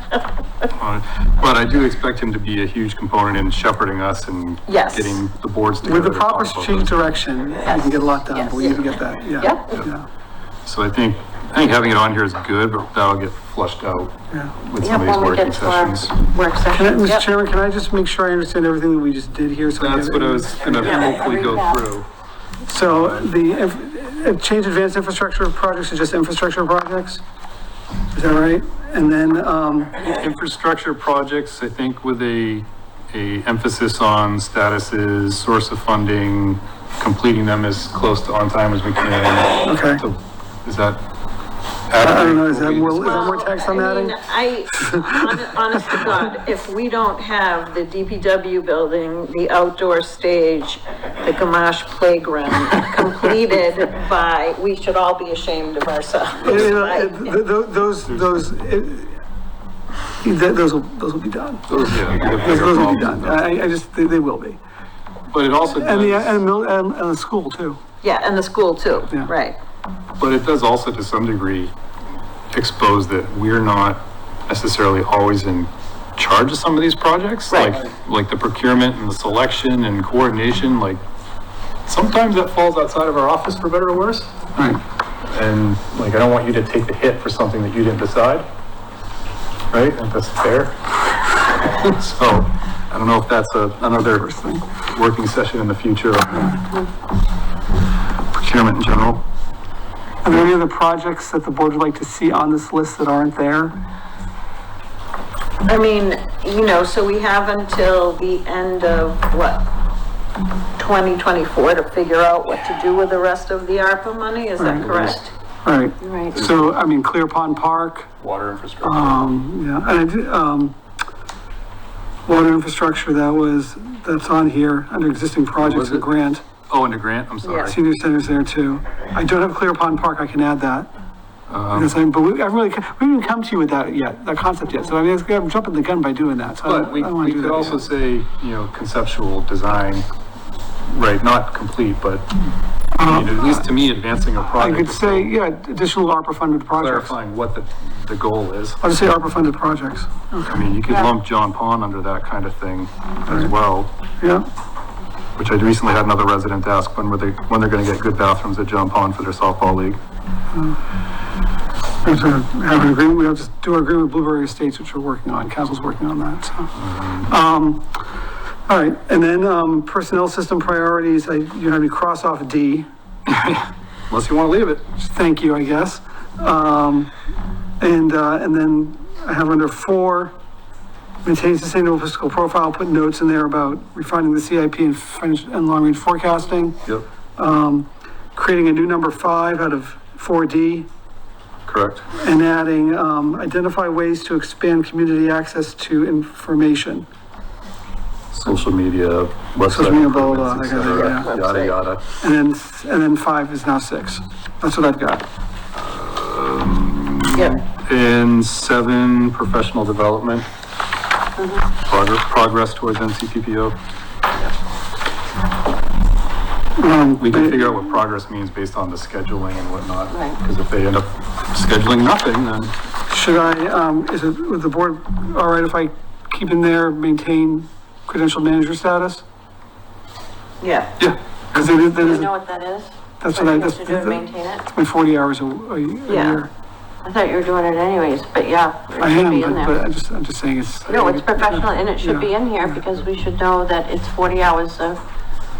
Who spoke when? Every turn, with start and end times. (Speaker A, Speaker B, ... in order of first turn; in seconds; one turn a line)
Speaker A: 0.8-7.0
Speaker B: 4.7-5.2
Speaker C: 5.8-10.1
Speaker B: 7.7-8.6
Speaker B: 9.4-9.8
Speaker A: 10.7-16.2
Speaker D: 14.8-17.1
Speaker C: 16.7-21.4
Speaker A: 19.8-22.1
Speaker D: 20.8-21.8
Speaker C: 22.6-27.2
Speaker A: 22.9-23.3
Speaker C: 28.1-29.9
Speaker A: 30.0-41.0
Speaker C: 39.6-40.0
Speaker A: 41.9-43.1
Speaker C: 42.0-44.2
Speaker B: 43.0-57.3
Speaker C: 44.8-45.4
Speaker C: 56.4-59.2
Speaker A: 58.1-58.5
Speaker C: 60.2-64.6
Speaker A: 61.7-63.5
Speaker A: 65.3-66.4
Speaker C: 65.6-67.8
Speaker B: 68.0-69.6
Speaker A: 70.2-71.7
Speaker A: 72.5-81.0
Speaker B: 77.5-77.8
Speaker A: 81.9-84.3
Speaker A: 85.3-88.5
Speaker A: 89.7-90.8
Speaker A: 91.8-94.3
Speaker C: 94.1-94.7
Speaker A: 94.9-96.6
Speaker A: 98.3-99.2
Speaker C: 100.2-103.8
Speaker B: 105.7-109.6
Speaker B: 110.8-115.3
Speaker C: 114.6-114.8
Speaker A: 114.8-115.2
Speaker C: 115.6-118.1
Speaker D: 116.0-116.4
Speaker A: 116.3-116.7
Speaker A: 118.2-119.2
Speaker C: 118.8-120.8
Speaker C: 122.2-126.4
Speaker A: 125.6-126.1
Speaker A: 126.7-127.8
Speaker B: 127.4-127.7
Speaker C: 127.6-130.9
Speaker A: 131.5-132.0
Speaker C: 131.7-137.8
Speaker A: 136.6-140.0
Speaker A: 140.9-142.3
Speaker C: 142.9-143.5
Speaker A: 143.0-145.3
Speaker C: 144.4-147.2
Speaker A: 146.8-148.8
Speaker C: 148.8-150.7
Speaker A: 150.5-153.9
Speaker C: 153.3-153.5
Speaker C: 154.2-154.4
Speaker A: 155.3-160.0
Speaker C: 162.0-166.7
Speaker A: 166.8-167.3
Speaker C: 167.3-167.9
Speaker C: 168.7-172.9
Speaker A: 173.3-174.8
Speaker C: 175.0-177.1
Speaker C: 177.8-180.3
Speaker C: 181.2-186.8
Speaker C: 187.4-190.9
Speaker A: 191.7-192.1
Speaker C: 192.1-197.1
Speaker A: 198.3-202.0
Speaker C: 199.7-201.3
Speaker B: 200.9-201.8
Speaker C: 202.2-205.2
Speaker A: 205.8-210.5
Speaker B: 207.3-207.6
Speaker D: 211.4-211.7
Speaker A: 211.8-213.8
Speaker C: 216.8-217.9
Speaker A: 217.2-222.7
Speaker D: 220.1-220.4
Speaker C: 223.1-229.2
Speaker B: 230.6-230.9
Speaker C: 231.5-232.3
Speaker D: 231.8-234.7
Speaker C: 233.2-236.5
Speaker B: 236.1-236.4
Speaker D: 237.0-239.8
Speaker C: 239.0-242.8
Speaker D: 240.8-245.0